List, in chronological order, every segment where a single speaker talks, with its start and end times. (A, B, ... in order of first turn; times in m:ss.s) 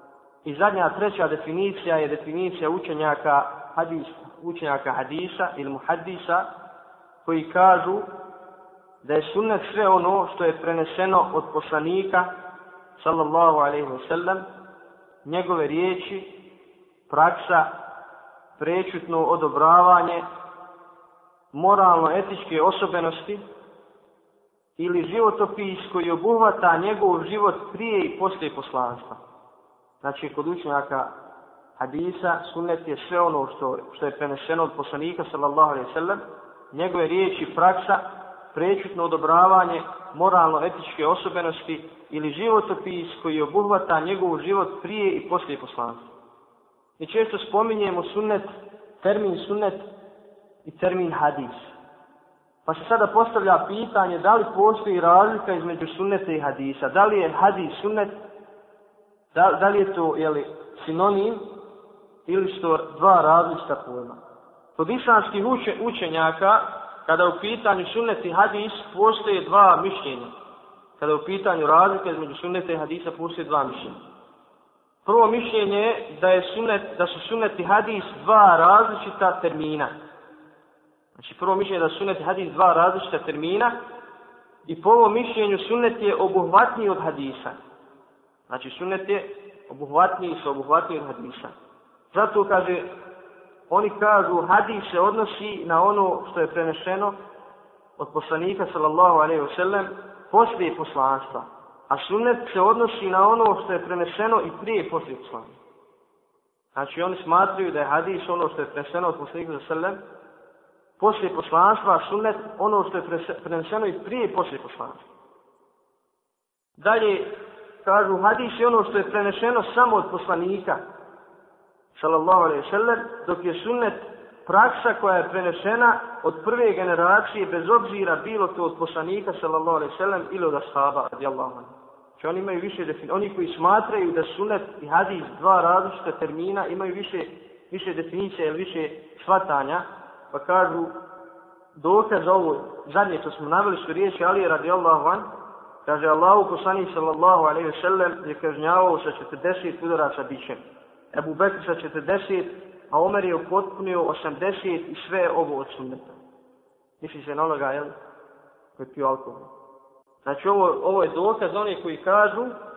0:00.4-0:06.5 A
0:07.2-0:08.1 A
0:09.0-0:12.3 A
0:13.0-0:14.5 A
0:15.2-0:16.3 A
0:17.1-0:17.7 A
0:18.6-0:20.2 A
0:21.5-0:23.4 A
0:24.8-0:29.2 A
0:30.0-0:31.1 A
0:31.8-0:36.2 A
0:36.7-0:46.1 A
0:47.0-0:48.5 A
0:49.0-0:49.9 A
0:50.6-0:51.7 A
0:52.6-0:58.1 A
0:59.3-1:01.5 A
1:02.3-1:04.2 A
1:04.8-1:10.3 A
1:11.0-1:14.0 A
1:15.0-1:19.9 A
1:21.2-1:23.8 A
1:24.6-1:27.6 A
1:28.5-1:31.5 A
1:32.1-1:32.9 A
1:33.7-1:37.2 A
1:38.0-1:45.5 A
1:46.7-1:50.0 A
1:51.0-1:55.0 A
1:56.8-2:00.8 A
2:01.9-2:20.9 A
2:21.8-2:25.3 A
2:25.8-2:30.6 A
2:31.1-2:36.2 A
2:37.0-2:37.9 A
2:38.8-2:39.5 A
2:40.2-2:42.5 A